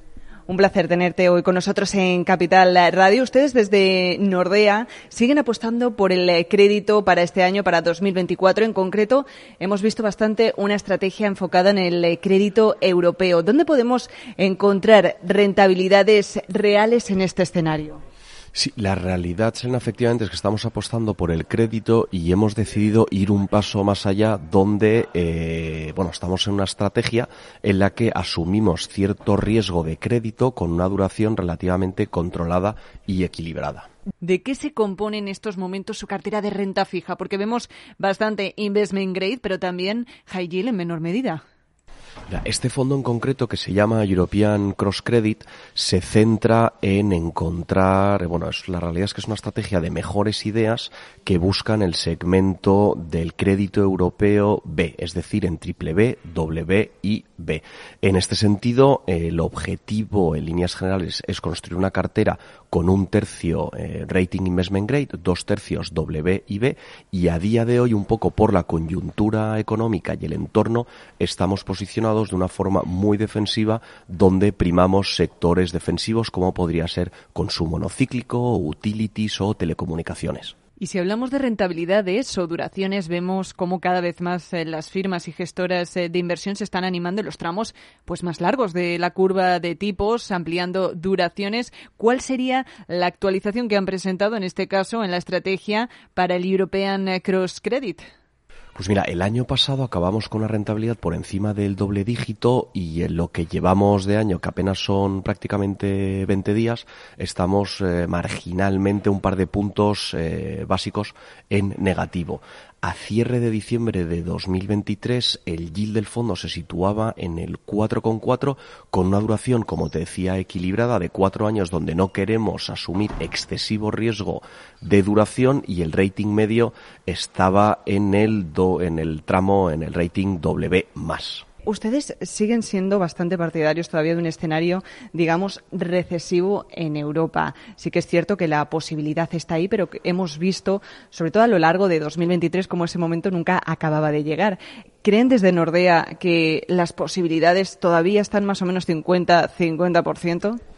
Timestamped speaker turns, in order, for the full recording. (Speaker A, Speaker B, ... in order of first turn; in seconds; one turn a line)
Speaker A: 0.5-18.0
Speaker B: 18.5-33.9
Speaker A: 34.2-41.4
Speaker B: 42.3-80.5
Speaker A: 80.8-98.0
Speaker B: 98.8-131.4
Speaker A: 131.7-150.6